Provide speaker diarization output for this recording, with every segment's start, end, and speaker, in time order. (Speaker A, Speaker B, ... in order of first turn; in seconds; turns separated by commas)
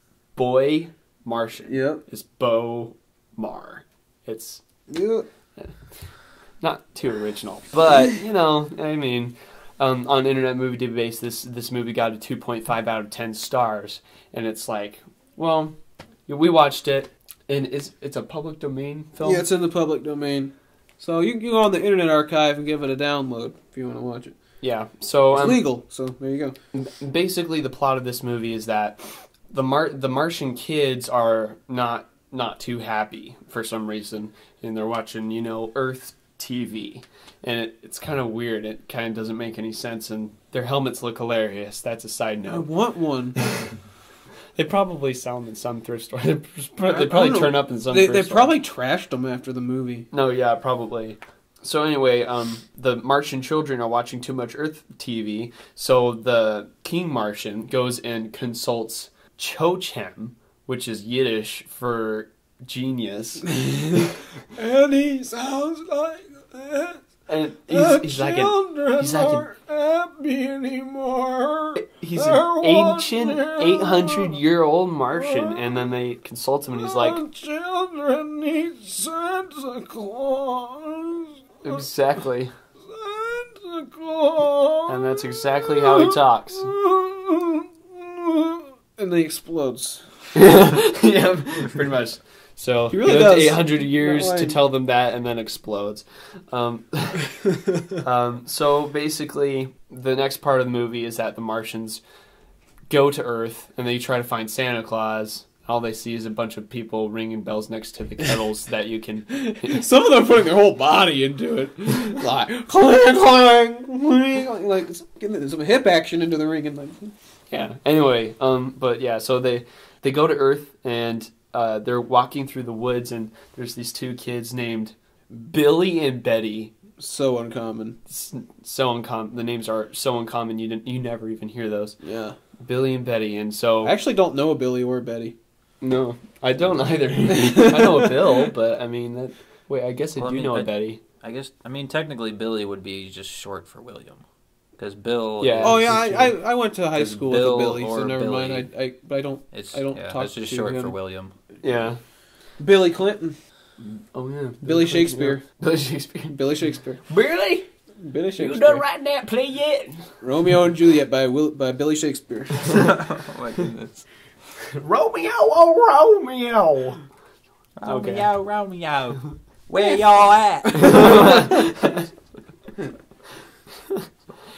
Speaker A: 0.3-4.6, Speaker B: 1.7-2.0, Speaker B: 4.9-5.2, Speaker A: 5.6-15.7, Speaker A: 16.3-19.5, Speaker B: 19.2-24.3, Speaker A: 24.6-25.6, Speaker B: 25.3-26.5, Speaker A: 26.7-42.7, Speaker B: 42.5-43.4, Speaker A: 43.4-43.7, Speaker A: 44.5-48.5, Speaker B: 46.9-50.1, Speaker A: 50.1-63.5, Speaker B: 63.5-67.0, Speaker A: 67.3-69.5, Speaker B: 67.7-74.4, Speaker A: 71.8-77.2, Speaker B: 75.2-75.6, Speaker B: 76.8-81.8, Speaker A: 81.6-82.5, Speaker B: 82.9-90.0, Speaker A: 84.9-86.7, Speaker A: 90.3-97.3, Speaker B: 92.9-94.5, Speaker A: 97.9-102.0, Speaker A: 102.9-109.8, Speaker B: 109.4-117.1, Speaker A: 117.5-126.8, Speaker B: 127.0-128.0, Speaker A: 128.1-132.0, Speaker B: 132.0-132.4, Speaker A: 132.6-133.9, Speaker B: 133.8-135.3, Speaker A: 135.8-141.0, Speaker B: 137.4-138.1, Speaker C: 140.2-144.2, Speaker C: 144.8-145.9, Speaker A: 145.4-146.3, Speaker B: 145.6-150.9, Speaker C: 146.9-148.7, Speaker C: 149.5-151.3, Speaker A: 151.6-152.0, Speaker B: 152.6-153.4, Speaker A: 153.8-156.4, Speaker B: 154.6-155.4, Speaker B: 156.3-157.0, Speaker A: 157.1-157.7, Speaker B: 158.0-158.8, Speaker A: 158.4-160.2, Speaker B: 160.2-162.9, Speaker C: 162.9-164.0, Speaker A: 164.7-167.0, Speaker C: 167.8-171.7, Speaker A: 167.8-168.3, Speaker A: 170.7-172.1